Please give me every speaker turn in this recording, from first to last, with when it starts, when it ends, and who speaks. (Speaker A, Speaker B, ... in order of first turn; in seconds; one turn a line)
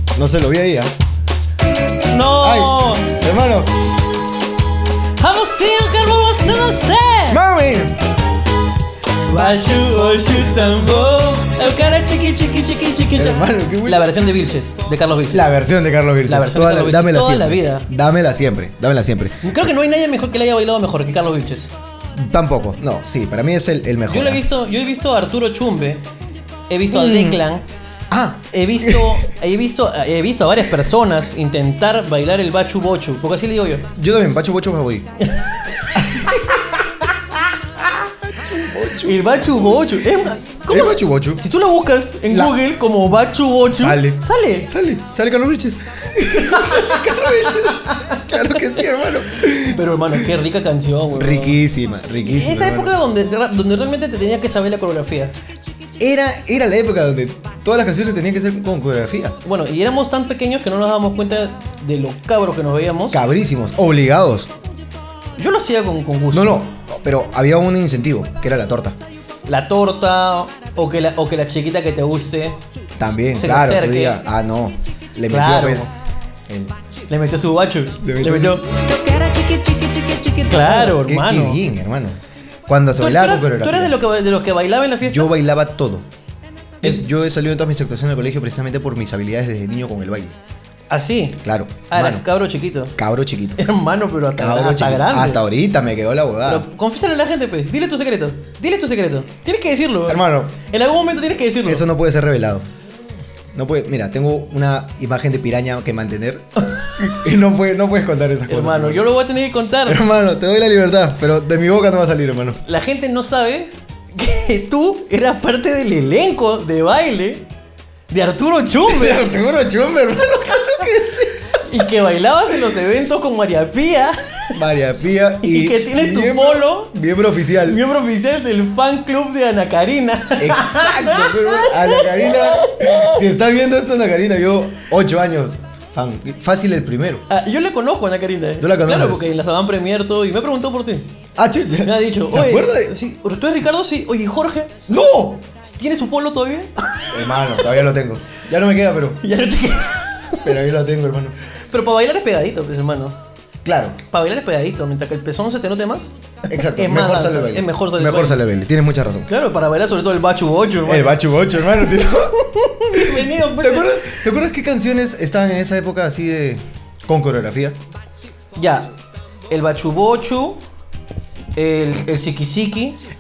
Speaker A: 0.1-0.9
Speaker B: 2.1-3.2
Speaker A: 2.4-3.7
Speaker B: 5.2-7.4
Speaker A: 7.3-8.0
Speaker B: 9.3-15.6
Speaker A: 13.1-14.1
Speaker A: 15.3-19.7
Speaker B: 16.3-17.9
Speaker B: 19.4-21.7
Speaker A: 22.1-24.4
Speaker B: 24.1-26.0
Speaker B: 26.7-27.6
Speaker A: 26.9-27.4
Speaker A: 28.1-29.2
Speaker B: 28.5-33.9
Speaker A: 33.9-35.1
Speaker B: 35.2-36.8
Speaker A: 36.0-36.6
Speaker A: 38.3-40.0
Speaker B: 39.0-44.7
Speaker A: 40.7-41.4
Speaker A: 42.3-42.6
Speaker A: 43.7-50.3
Speaker B: 46.3-48.7
Speaker B: 49.5-51.6
Speaker A: 51.1-53.0
Speaker B: 52.2-55.3
Speaker A: 56.0-59.4
Speaker B: 59.4-63.2
Speaker A: 63.1-64.5
Speaker B: 65.4-66.7
Speaker A: 66.3-69.0
Speaker B: 69.5-72.6
Speaker A: 73.0-75.9
Speaker B: 73.4-74.2
Speaker B: 75.3-75.9
Speaker A: 76.5-76.8
Speaker B: 77.1-78.7
Speaker A: 78.0-78.6
Speaker C: 78.7-80.9
Speaker B: 80.5-81.6
Speaker A: 80.8-84.0
Speaker B: 83.0-85.3
Speaker A: 85.0-86.1
Speaker A: 86.8-90.4
Speaker B: 90.9-93.0
Speaker A: 91.4-92.2
Speaker A: 93.0-93.6
Speaker B: 93.6-95.4
Speaker A: 94.3-96.7
Speaker B: 96.5-101.8
Speaker A: 100.1-100.5
Speaker A: 101.7-102.7
Speaker A: 103.5-109.1
Speaker B: 108.5-110.0
Speaker A: 109.8-112.6
Speaker B: 112.7-117.5
Speaker B: 118.1-119.3
Speaker A: 118.8-121.5
Speaker B: 121.6-124.6
Speaker A: 124.5-127.8
Speaker B: 125.4-126.9
Speaker B: 127.6-133.2
Speaker A: 130.4-137.2
Speaker B: 137.3-141.1
Speaker A: 138.6-139.2
Speaker A: 141.4-142.9
Speaker B: 141.8-144.8
Speaker A: 144.9-145.4
Speaker B: 145.6-147.1
Speaker A: 147.1-149.2
Speaker B: 149.2-150.5
Speaker A: 150.4-151.4
Speaker B: 151.7-153.2
Speaker A: 153.6-154.0
Speaker B: 154.1-158.4
Speaker A: 156.5-159.3
Speaker B: 159.3-164.2
Speaker A: 160.9-167.8
Speaker B: 168.6-168.9
Speaker B: 169.5-170.6
Speaker B: 171.6-173.0